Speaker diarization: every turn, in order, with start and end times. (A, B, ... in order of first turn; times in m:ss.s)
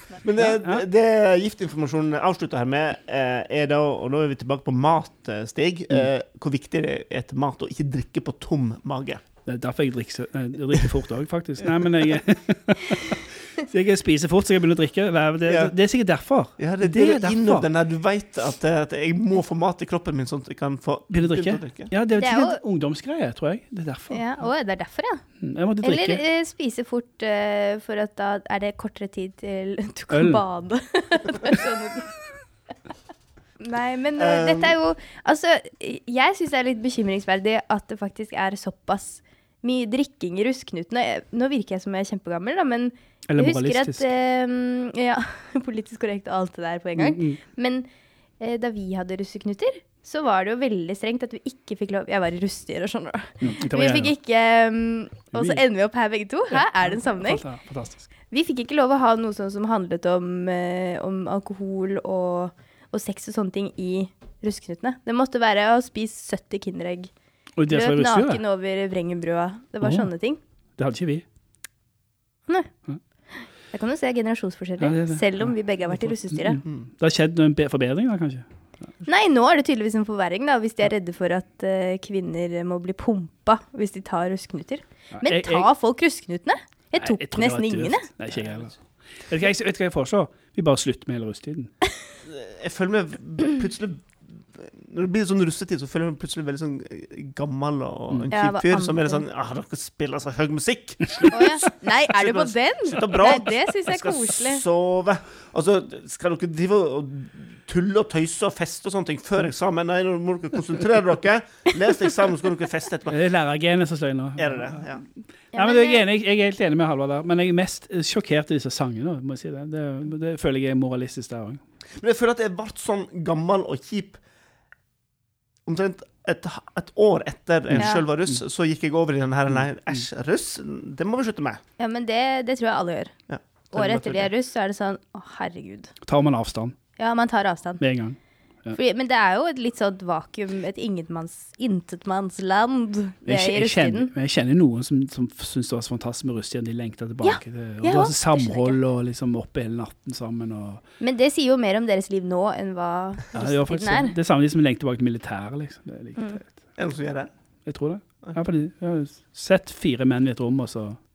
0:00.2-0:09.2 A
0:00.4-0:00.8 B
0:09.4-0:17.7 B
0:15.4-0:15.7 A
0:16.6-0:21.9 A
0:21.1-0:24.2 B
0:22.2-0:22.6 C
0:24.1-0:25.2 C
0:25.4-0:26.2 B
0:25.8-0:32.2 C
0:30.1-0:30.4 B
0:33.6-0:47.9 C
0:34.2-0:34.8 A
0:43.3-0:44.1 B
0:47.0-0:47.4 B
0:48.4-0:57.4 C
0:53.4-0:54.1 B
0:55.3-0:55.6 B
0:56.5-0:58.1 B
0:58.3-1:07.1 C
1:07.6-1:08.4 B
1:07.7-1:10.4 C
1:09.8-1:10.1 B
1:10.8-1:11.2 B
1:13.7-1:16.6 C
1:14.8-1:18.4 B
1:19.0-1:28.1 C
1:25.1-1:25.7 B
1:27.0-1:31.7 B
1:32.2-1:53.2 A
1:38.3-1:39.2 C
1:41.3-1:44.6 C
1:53.1-2:01.6 B
1:54.4-1:55.0 A
1:55.5-1:56.0 C
2:02.0-2:04.2 A
2:05.6-2:11.6 A
2:07.8-2:08.0 C
2:11.8-2:13.1 C
2:13.3-2:14.3 A
2:13.7-2:15.9 C
2:16.0-2:16.8 B
2:17.0-2:17.8 C
2:17.8-2:18.8 B
2:18.7-2:24.1 C
2:23.3-2:30.8 B
2:27.2-2:28.8 C
2:31.0-2:34.1 C
2:33.3-2:36.6 B
2:36.8-2:37.3 A
2:37.6-2:41.0 B